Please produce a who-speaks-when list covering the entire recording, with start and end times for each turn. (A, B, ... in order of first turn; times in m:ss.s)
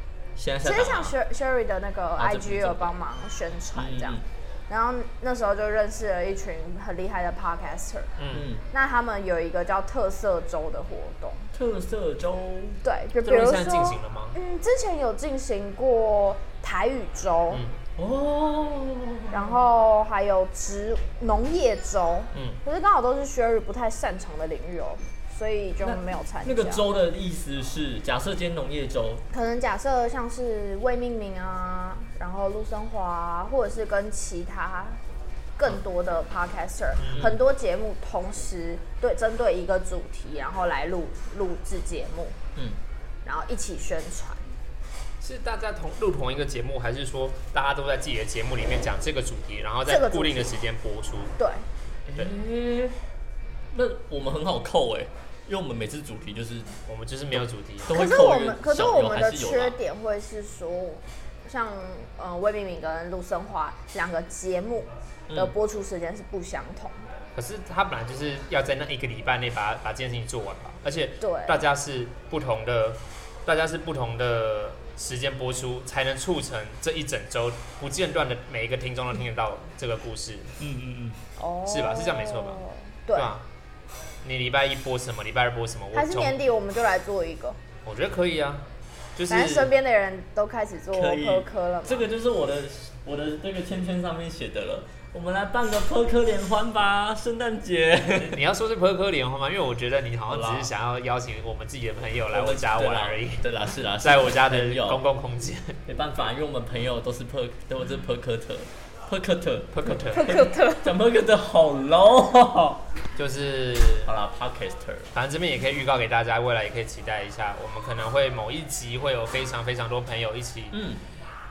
0:00.4-0:01.1 A
0:00.6-0:08.1 B
0:02.2-0:02.9 A
0:03.7-0:04.2 A
0:08.2-0:08.5 C
0:08.3-0:08.6 A
0:08.7-0:11.5 B
0:11.5-0:12.8 A
0:12.8-0:17.6 B
0:13.2-0:14.4 C
0:17.5-0:17.8 C
0:18.0-0:19.6 A
0:19.3-0:26.8 B
0:22.3-0:22.6 C
0:25.8-0:29.2 A
0:29.3-0:35.0 B
0:35.6-0:42.4 B
0:37.0-0:37.3 C
0:37.1-0:37.4 A
0:43.2-0:44.4 B
0:45.2-0:51.3 C
0:49.9-0:50.5 B
0:51.4-0:51.6 B
0:52.1-0:53.1 A
0:53.7-0:56.7 A
0:56.9-0:58.0 C
0:57.8-0:59.8 A
0:57.9-1:07.1 B
1:07.3-1:20.6 C
1:11.2-1:11.6 B
1:20.6-1:21.2 A
1:21.4-1:23.3 B
1:21.6-1:22.6 C
1:23.1-1:23.4 C
1:24.2-1:26.4 C
1:25.9-1:27.6 B
1:27.8-1:28.6 C
1:29.2-1:29.7 C
1:29.3-1:32.1 B
1:30.9-1:38.4 A
1:38.2-1:43.4 C
1:40.3-1:40.7 A
1:42.3-1:45.0 A
1:44.0-1:45.8 C
1:45.8-1:52.8 A
1:49.7-1:50.4 C
1:50.0-1:51.0 B
1:53.2-1:54.1 C
1:54.0-1:55.1 A
1:55.1-2:00.8 C
2:00.7-2:01.0 A